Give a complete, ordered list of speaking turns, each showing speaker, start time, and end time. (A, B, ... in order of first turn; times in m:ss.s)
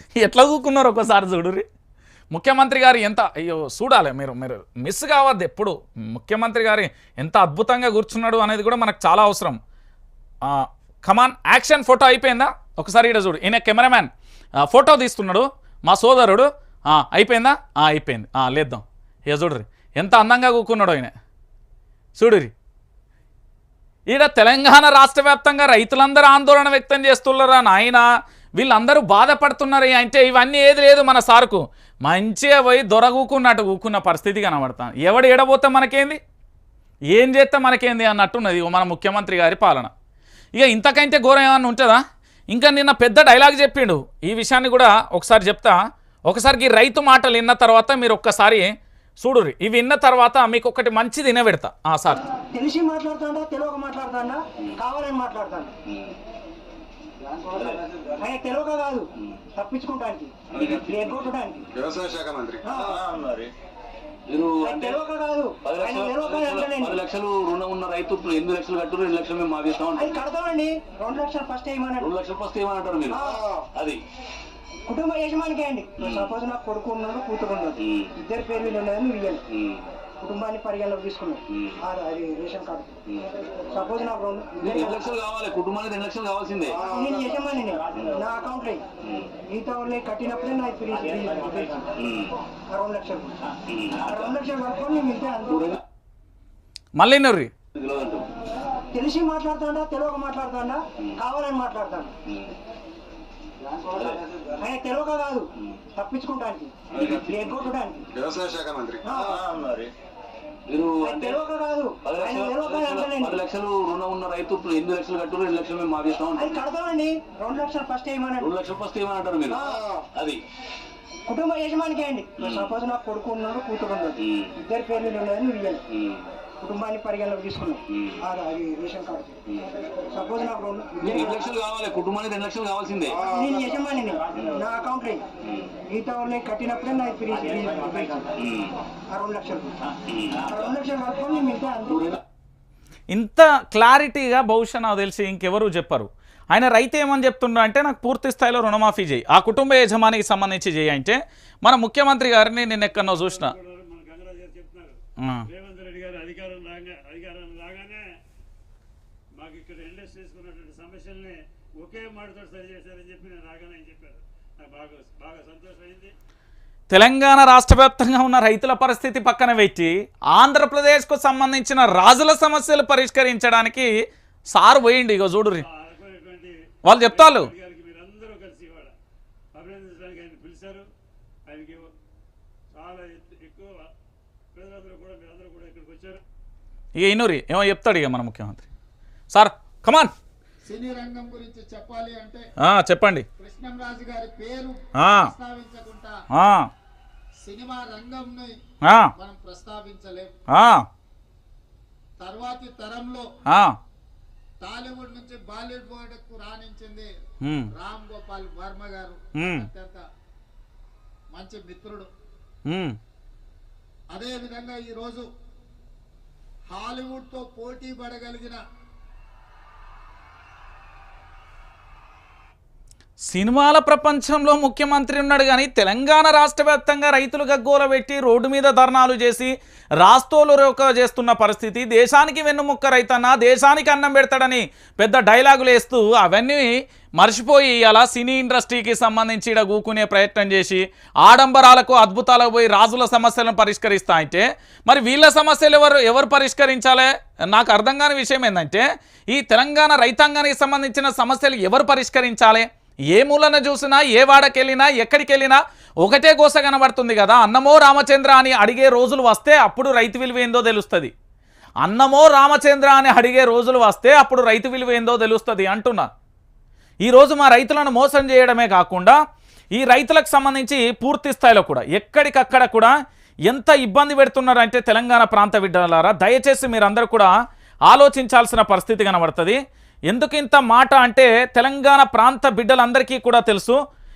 0:00.2-0:01.6 A
0:02.3-0:09.6 A
0:10.4-0:14.1 A
0:14.6-0:21.1 A
0:22.2-0:22.5 A
0:24.1-0:28.0 A
0:28.6-0:36.2 A
0:37.1-0:39.9 A
0:40.5-0:52.2 A
0:52.5-0:55.7 B
0:55.9-0:56.2 C
0:57.4-0:58.1 C
0:58.2-1:01.7 B
1:00.5-1:01.3 C
1:01.8-1:03.5 D
1:02.6-1:03.0 B
1:04.3-1:05.0 C
1:04.6-1:07.0 B
1:05.6-1:10.1 C
1:09.9-1:12.1 B
1:12.0-1:14.0 C
1:13.1-1:13.5 B
1:14.8-1:19.4 B
1:16.0-1:16.3 C
1:17.9-1:18.1 C
1:19.5-1:19.9 C
1:20.2-1:23.0 B
1:23.7-1:25.0 B
1:24.6-1:26.8 C
1:26.8-1:28.8 B
1:29.0-1:29.3 C
1:29.5-1:31.9 B
1:32.0-1:32.3 C
1:32.7-1:33.4 B
1:33.7-1:34.1 C
1:33.9-1:35.8 B
1:37.0-1:37.5 A
1:37.7-1:38.3 C
1:38.9-1:42.1 B
1:42.3-1:42.5 C
1:43.8-1:44.4 C
1:44.6-1:48.0 B
1:46.9-1:47.7 C
1:48.2-1:49.0 D
1:49.0-1:49.4 B
1:49.5-1:49.9 D
1:50.7-1:51.4 C
1:51.0-1:53.4 B
1:52.0-1:56.6 C
1:56.3-1:58.5 B
1:58.4-2:00.4 C
1:59.5-1:59.9 B
2:01.2-2:05.8 B
2:02.4-2:02.7 C
2:04.2-2:04.5 C
2:05.9-2:06.3 C
2:06.6-2:09.4 B
2:07.9-2:08.2 C
2:10.1-2:11.4 B
2:11.0-2:13.3 C
2:13.2-2:15.2 B
2:15.4-2:15.7 C
2:15.9-2:18.3 B
2:18.4-2:18.8 C
2:19.1-2:19.8 B
2:20.1-2:20.4 C
2:20.4-2:22.2 B
2:23.1-2:33.5 A
2:33.0-2:35.0 E
2:35.2-2:35.4 A
2:35.5-2:38.1 E
2:39.4-2:46.1 E
2:46.9-2:53.9 A
2:54.5-2:55.6 A
2:55.6-2:58.9 E
2:56.8-2:57.5 A
2:59.5-3:00.9 E
3:01.5-3:01.9 E
3:02.7-3:03.9 E
3:04.5-3:06.2 E
3:07.0-3:08.6 A
3:09.3-3:10.1 A
3:10.6-3:12.4 F
3:12.6-3:13.2 A
3:13.4-3:16.1 F
3:15.0-3:15.3 A
3:16.3-3:16.7 A
3:17.4-3:18.6 F
3:19.2-3:20.3 F
3:20.5-3:20.8 A
3:22.2-3:23.2 F
3:24.6-3:27.1 F
3:27.4-3:27.7 A
3:27.7-3:30.0 F
3:29.4-3:29.6 A
3:31.3-3:32.1 F
3:32.7-3:33.0 A
3:34.1-3:35.3 F
3:36.7-3:38.6 F
3:43.3-4:21.1 A
4:21.8-4:26.1 A
4:27.0-4:29.2 A
4:29.7-4:32.9 A
4:33.5-4:37.3 A
4:37.9-4:39.6 A
4:40.1-4:43.8 A